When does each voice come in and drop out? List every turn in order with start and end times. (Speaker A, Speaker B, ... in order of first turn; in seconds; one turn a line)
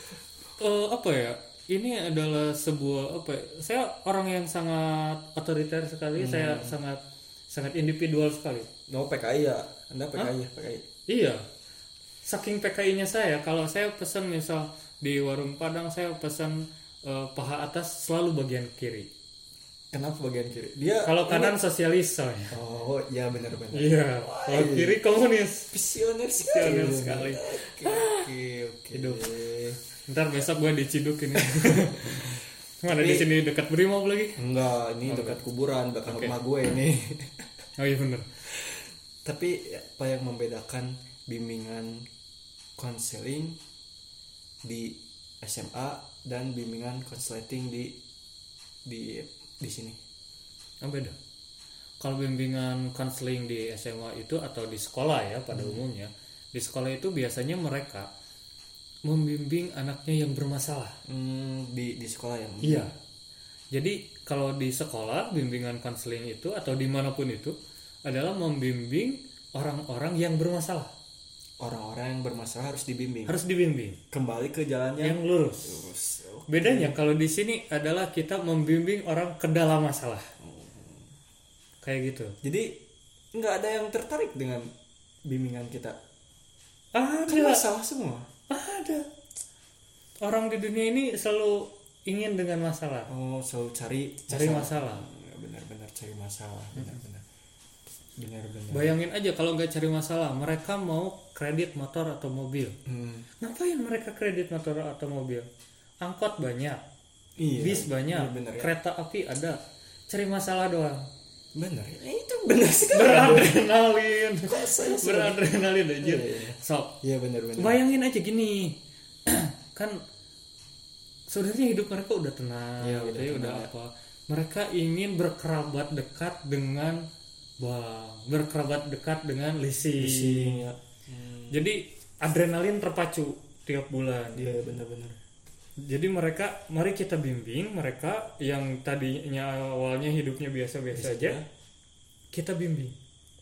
Speaker A: 0.6-8.7
Speaker B: 6.2-6.8
Speaker B: 8.9-10.8
Speaker A: 11.1-11.4
Speaker A: 12.2-19.1
Speaker B: 19.9-21.6
Speaker A: 21.0-22.6
Speaker B: 22.5-25.0
Speaker A: 23.7-25.7
Speaker B: 25.7-29.8
Speaker A: 26.4-28.2
Speaker A: 28.9-29.2
Speaker A: 30.1-34.4
Speaker B: 31.4-32.3
Speaker B: 32.8-33.3
Speaker B: 34.4-37.4
Speaker A: 35.0-35.4
Speaker A: 36.0-36.4
Speaker A: 37.8-38.3
Speaker B: 38.5-42.0
Speaker B: 42.8-43.6
Speaker B: 44.6-47.9
Speaker B: 48.9-50.0
Speaker A: 50.8-51.1
Speaker A: 52.0-58.1
Speaker B: 55.5-55.8
Speaker A: 59.1-61.0
Speaker B: 61.0-62.9
Speaker A: 62.6-62.9
Speaker A: 63.7-70.9
Speaker B: 71.6-73.4
Speaker A: 73.3-74.0
Speaker B: 74.1-77.0
Speaker A: 75.0-75.8
Speaker A: 76.5-80.3
Speaker B: 80.4-81.1
Speaker A: 81.8-82.3
Speaker B: 82.4-82.8
Speaker B: 83.3-84.7
Speaker B: 85.3-86.0
Speaker A: 86.9-87.6
Speaker B: 87.3-88.2
Speaker A: 88.5-89.0
Speaker A: 90.2-93.1
Speaker B: 93.1-97.2
Speaker A: 94.3-95.1
Speaker B: 98.2-99.0
Speaker A: 98.7-102.7
Speaker B: 102.8-103.3
Speaker A: 103.4-105.5
Speaker A: 106.0-106.8
Speaker B: 107.4-108.7
Speaker A: 107.5-109.6
Speaker A: 110.1-111.0
Speaker B: 111.5-113.6
Speaker A: 112.9-116.9
Speaker B: 114.4-115.5
Speaker B: 116.0-117.8
Speaker A: 117.6-120.0
Speaker A: 121.3-127.0
Speaker B: 122.8-123.7
Speaker A: 127.6-130.6
Speaker B: 130.0-131.7
Speaker A: 131.5-134.5
Speaker B: 134.3-135.2
Speaker A: 135.8-141.4
Speaker B: 140.9-141.4
Speaker A: 142.3-142.9